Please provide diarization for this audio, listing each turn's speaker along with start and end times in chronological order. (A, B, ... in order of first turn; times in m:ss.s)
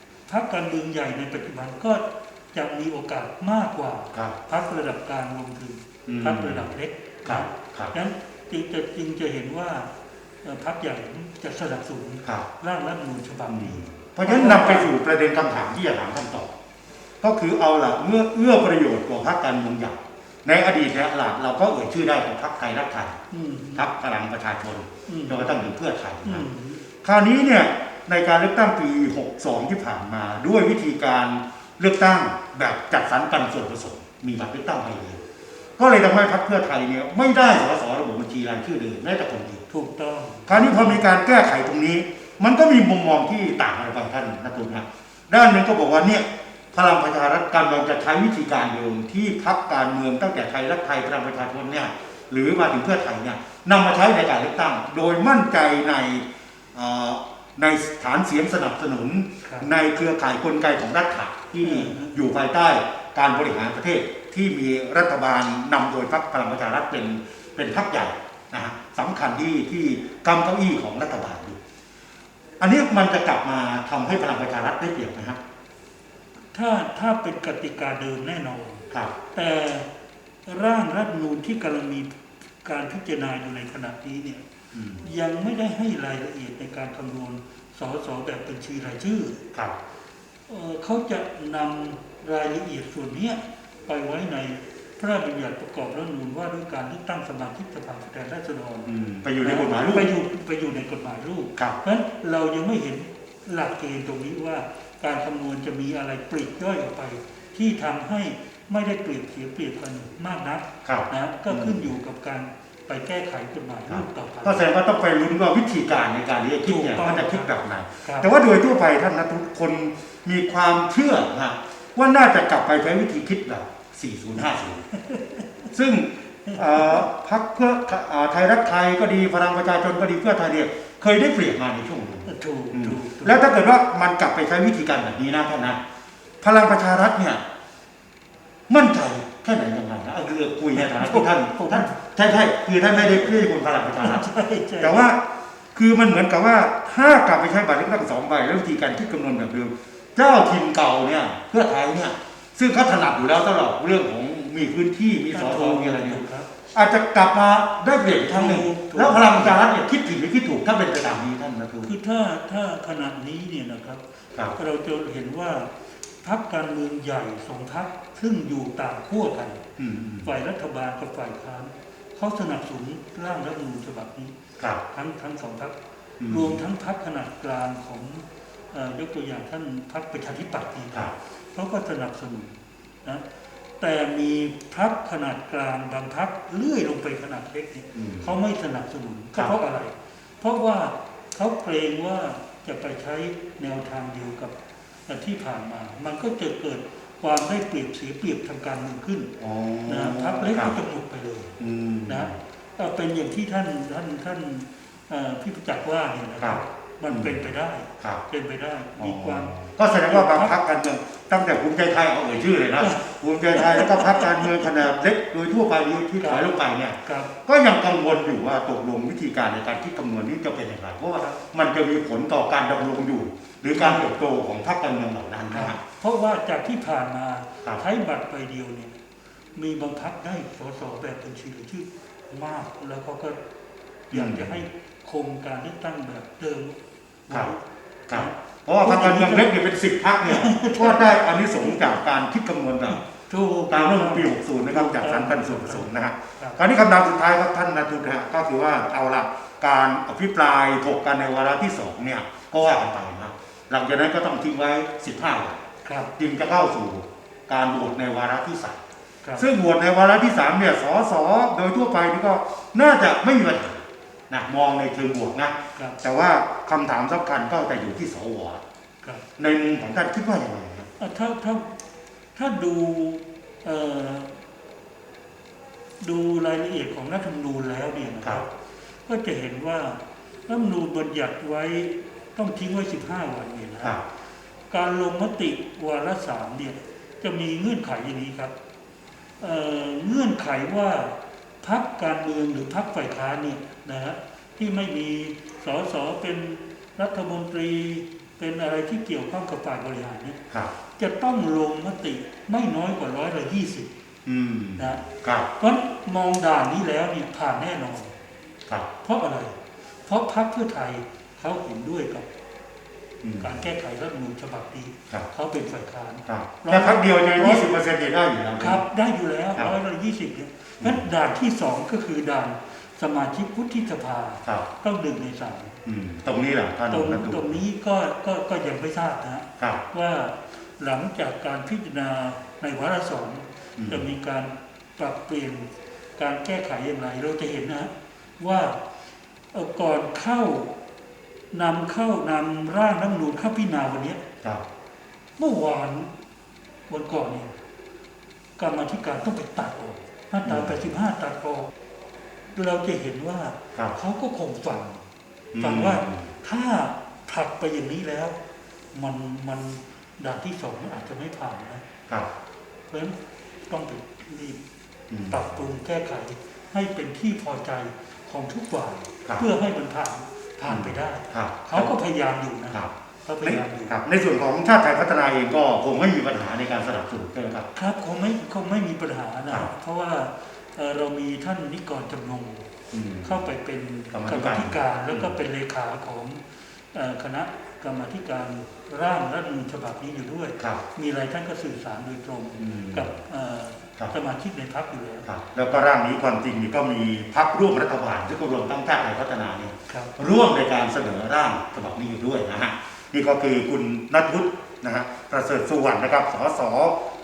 0:00.3-0:09.9 A
0:06.1-0:06.7 B
0:07.2-0:07.9 B
0:10.4-0:14.9 A
0:13.5-0:16.5 B
0:17.2-0:23.2 B
0:23.3-0:23.9 A
0:23.7-0:26.4 B
0:25.1-0:25.5 A
0:26.2-0:26.8 A
0:27.0-0:35.2 B
0:35.8-0:39.6 B
0:39.7-0:41.0 A
0:40.5-1:11.6 B
0:59.4-0:59.7 A
1:01.6-1:02.1 A
1:12.6-1:15.4 B
1:16.5-1:19.8 A
1:20.4-1:24.4 A
1:24.7-1:25.1 B
1:25.0-1:29.4 A
1:30.5-1:38.9 A
1:38.8-1:40.1 B
1:39.4-1:54.6 A
1:50.8-1:51.9 B
1:53.9-2:04.9 B
1:56.6-1:57.5 A
1:58.0-1:58.3 A
2:05.0-2:05.4 A
2:05.7-2:15.8 B
2:06.4-2:07.0 A
2:12.2-2:13.4 A
2:16.4-2:17.4 B
2:18.7-2:24.2 B
2:20.7-2:21.9 A
2:22.8-2:23.5 A
2:24.0-2:25.0 A
2:24.8-2:25.2 B
2:25.7-2:41.9 B
2:35.3-2:36.5 A
2:38.2-2:39.6 A
2:41.8-2:44.0 A
2:44.5-2:45.7 A
2:46.2-2:49.6 A
2:49.8-2:50.3 B
2:50.2-2:54.3 A
2:54.9-2:55.7 A
2:56.2-2:56.6 B
2:56.3-3:03.2 A
3:03.8-3:14.6 A
3:07.9-3:08.3 B
3:15.1-3:19.3 A
3:19.4-3:20.8 B
3:19.8-3:21.5 A
3:21.6-3:22.3 B
3:22.1-3:30.6 A
3:26.4-3:27.5 B
3:29.0-3:45.8 B
3:32.8-3:34.7 A
3:36.2-3:36.4 A
3:37.0-3:37.3 A
3:43.7-3:44.1 A
3:45.5-3:49.0 A
3:49.6-3:53.4 A
3:54.1-3:56.8 A
3:54.1-3:54.6 B
3:57.3-3:57.6 A
3:58.1-4:03.0 B
3:58.1-3:59.5 A
4:00.2-4:02.0 A
4:02.9-4:06.6 A
4:03.7-4:15.6 B
4:15.8-4:16.1 A
4:16.2-4:18.8 B
4:19.4-4:28.6 B
4:29.4-4:30.9 B
4:31.0-4:31.7 A
4:32.3-4:34.4 A
4:36.0-4:38.5 A
4:39.0-4:44.0 A
4:44.7-4:48.5 A
4:49.4-5:00.4 A
5:01.0-5:03.9 A
5:04.2-5:05.5 B
5:04.8-5:05.0 A
5:05.6-5:08.1 A
5:09.0-5:12.3 A
5:13.2-5:13.5 B
5:13.4-5:17.7 A
5:16.2-5:18.8 B
5:18.6-5:25.8 A
5:25.8-5:27.6 B
5:26.9-5:38.8 A
5:33.8-5:34.1 B
5:39.5-5:40.7 A
5:41.5-5:44.2 A
5:45.4-5:46.1 A
5:46.9-5:47.5 A
5:48.6-5:51.7 A
5:50.4-5:50.8 B
5:52.5-5:55.0 A
5:55.5-5:56.3 B
5:55.6-5:58.4 A
5:58.9-6:01.8 A
6:02.9-6:03.2 A
6:03.7-6:04.6 A
6:05.1-6:05.5 B
6:05.3-6:14.0 A
6:10.7-6:11.9 B
6:13.4-6:17.7 B
6:17.7-6:22.7 A
6:22.9-6:23.4 B
6:23.2-6:26.4 A
6:24.1-6:25.4 B
6:26.9-6:35.3 A
6:32.6-6:33.1 B
6:35.2-6:46.9 B